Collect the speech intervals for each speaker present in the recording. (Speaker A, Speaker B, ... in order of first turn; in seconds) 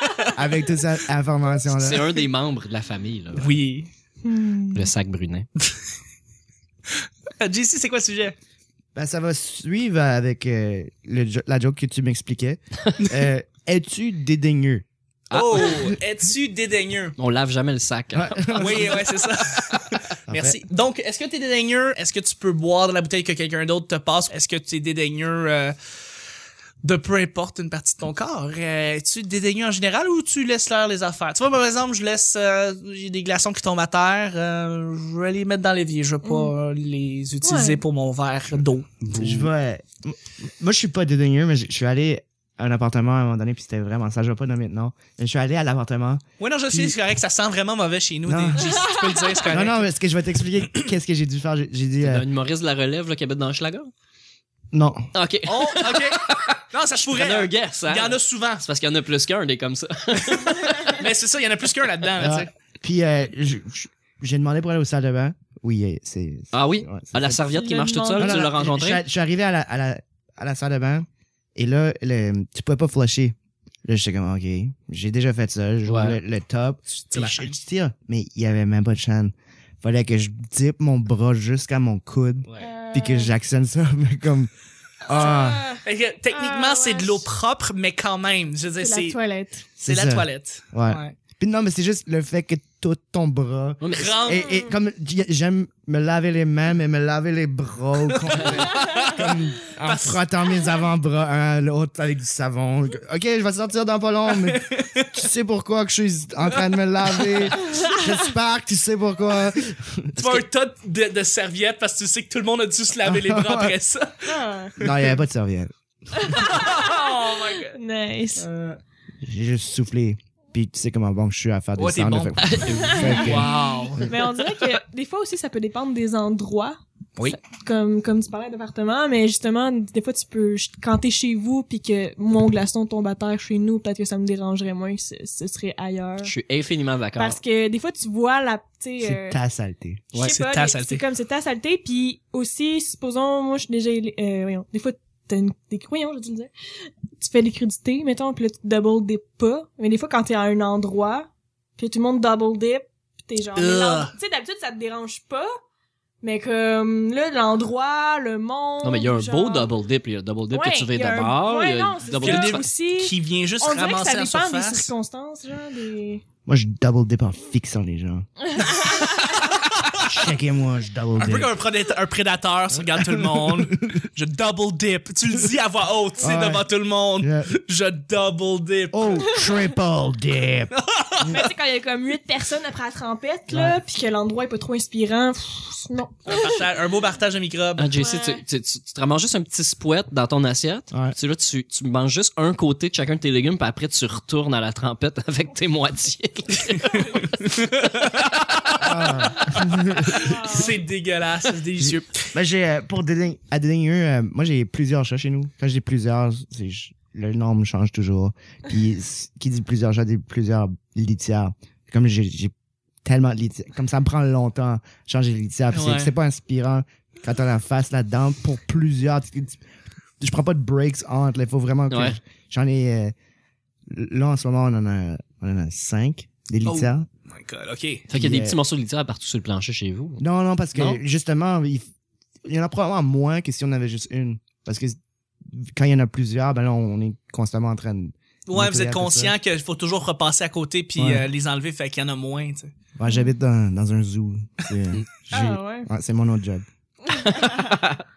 Speaker A: 0.3-2.2, 8.9-14.8, 18.1-19.0, 20.3-20.6, 39.1-47.0, 48.3-48.8, 49.5-52.2, 54.7-55.1, 62.2-67.4, 68.2-84.5, 85.0-85.7, 89.8-110.4, 113.0-113.7, 114.8-115.7, 119.2-124.1, 139.0-140.1, 166.4-168.3, 170.0-171.5, 172.8-173.9, 176.2-177.5, 178.9-180.7, 183.5-183.8, 198.8-200.5, 201.8-212.5, 213.0-219.6, 220.2-223.1, 223.9-227.1, 228.1-228.6, 230.2-231.9, 232.4-235.0, 235.5-239.3, 241.0-241.2, 242.9-246.6
Speaker B: 1.7-3.5, 4.7-5.5, 15.3-15.9, 17.2-19.0, 39.1-39.5, 52.0-53.9, 55.1-61.0, 66.5-69.0, 75.8-76.2, 93.8-94.2, 122.4-123.4, 136.2-137.4, 158.8-162.7, 187.8-197.4, 221.9-222.2, 228.1-230.2, 230.7-231.0, 247.1-248.0
Speaker C: 3.4-3.9, 7.4-8.3, 13.0-13.2, 15.3-17.1, 18.5-25.8, 26.8-39.3, 46.4-49.8, 55.5-58.6, 60.9-62.5, 76.9-77.6, 82.4-82.7, 85.8-89.2, 89.8-91.2, 93.9-94.6, 98.2-100.2, 104.3-105.1, 107.1-107.6, 110.2-115.1, 116.2-117.8, 118.3-118.8, 121.8-122.5, 123.1-124.3, 140.2-141.0, 153.6-154.1, 162.2-164.9, 168.7-170.2, 171.2-179.4, 180.7-181.5, 186.2-187.9, 196.7-202.3, 215.7-216.1, 226.6-228.1, 238.5-242.7
Speaker D: 4.2-4.9, 36.2-36.5, 37.4-37.8, 67.5-68.5, 82.6-83.3, 85.1-87.2, 88.8-89.6, 94.3-94.7, 114.2-114.7, 116.1-118.5, 122.6-136.3, 137.2-139.4, 140.1-146.5, 147.2-155.5, 156.2-159.7, 160.5-166.2, 168.5-169.4, 181.2-186.7, 187.9-188.4, 200.1-200.8, 245.3-245.9, 247.2-247.7